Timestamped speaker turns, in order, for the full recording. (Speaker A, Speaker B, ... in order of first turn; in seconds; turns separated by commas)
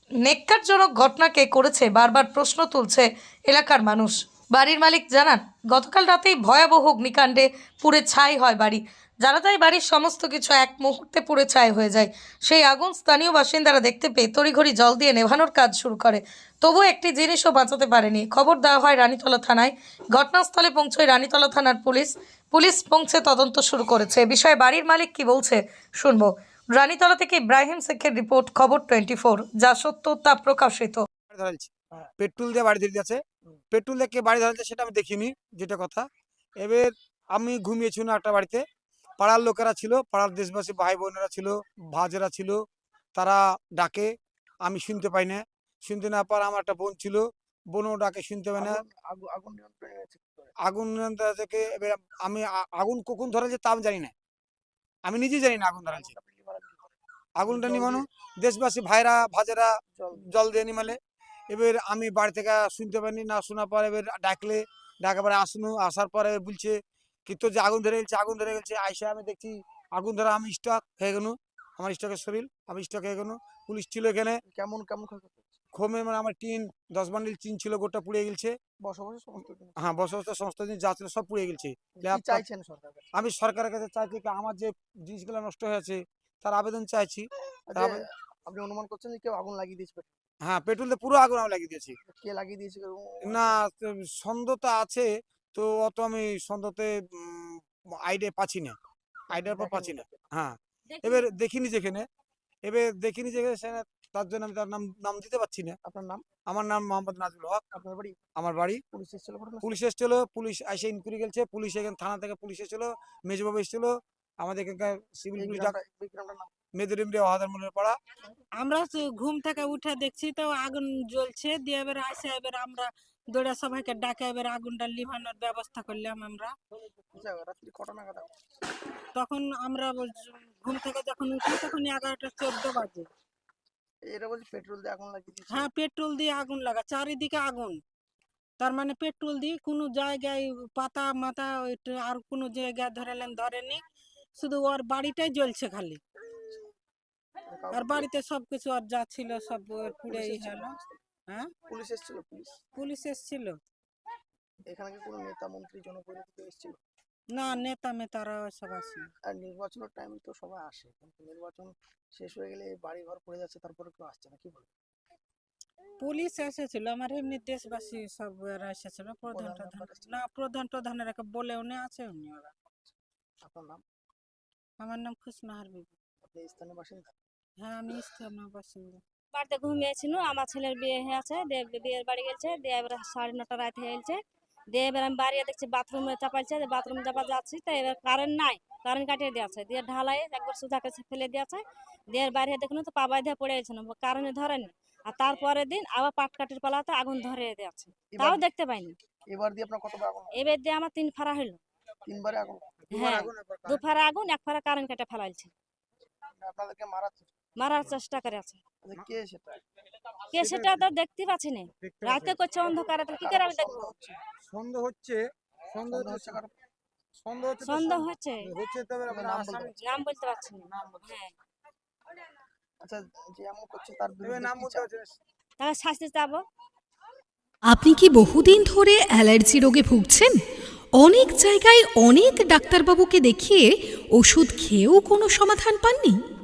Speaker A: 0.2-31.1, Speaker B: 31.3-33.2, Speaker B: 33.7-36.0, Speaker B: 36.6-38.6, Speaker B: 39.2-42.6, Speaker B: 43.1-44.1, Speaker B: 44.6-48.8, Speaker C: 48.6-50.5, Speaker B: 50.6-54.1, Speaker B: 55.0-56.1, Speaker C: 55.9-56.9, Speaker B: 57.4-61.0, Speaker C: 57.5-58.0, Speaker C: 59.9-60.2, Speaker B: 61.5-66.8, Speaker B: 67.3-74.4, Speaker C: 74.5-75.6, Speaker B: 75.7-78.6, Speaker C: 78.8-79.8, Speaker B: 79.8-82.4, Speaker C: 82.0-83.1, Speaker B: 83.1-88.0, Speaker C: 87.7-90.1, Speaker B: 90.4-92.0, Speaker C: 92.0-93.6, Speaker B: 93.2-98.7, Speaker C: 99.3-100.2, Speaker B: 99.3-102.0, Speaker D: 100.9-101.3, Speaker B: 102.6-105.8, Speaker C: 105.8-106.2, Speaker B: 106.4-107.6, Speaker C: 107.7-108.2, Speaker B: 108.3-108.8, Speaker C: 108.9-109.7, Speaker B: 109.6-115.7, Speaker C: 115.4-116.5, Speaker B: 116.8-118.0, Speaker E: 118.6-126.5, Speaker C: 127.1-128.3, Speaker E: 129.2-133.1, Speaker C: 134.0-135.7, Speaker E: 135.5-137.8, Speaker E: 138.6-143.8, Speaker E: 144.4-146.0, Speaker C: 147.5-148.1, Speaker E: 147.7-150.8, Speaker C: 149.9-151.0, Speaker C: 151.7-152.6, Speaker E: 152.8-153.6, Speaker C: 154.7-156.8, Speaker E: 157.3-159.1, Speaker C: 159.2-164.7, Speaker E: 166.0-172.5, Speaker C: 169.3-170.1, Speaker C: 173.4-173.8, Speaker E: 174.8-175.9, Speaker C: 176.2-177.1, Speaker E: 177.6-179.0, Speaker D: 179.3-184.2, Speaker D: 184.7-199.0, Speaker C: 198.2-198.4, Speaker C: 199.3-200.5, Speaker D: 200.3-201.6, Speaker C: 202.1-202.7, Speaker B: 202.9-203.8, Speaker D: 202.9-205.5, Speaker C: 206.4-207.3, Speaker D: 207.6-208.6, Speaker C: 208.8-209.6, Speaker B: 210.3-210.9, Speaker D: 210.3-213.9, Speaker B: 211.8-212.9, Speaker C: 213.2-214.2, Speaker B: 214.4-216.4, Speaker C: 215.9-216.5, Speaker B: 217.2-219.9, Speaker D: 217.6-218.5, Speaker C: 219.1-219.7, Speaker D: 219.8-221.3, Speaker B: 220.6-221.2, Speaker C: 222.8-224.9, Speaker B: 224.2-225.1, Speaker D: 225.6-226.4, Speaker F: 227.7-230.4, Speaker F: 230.9-236.2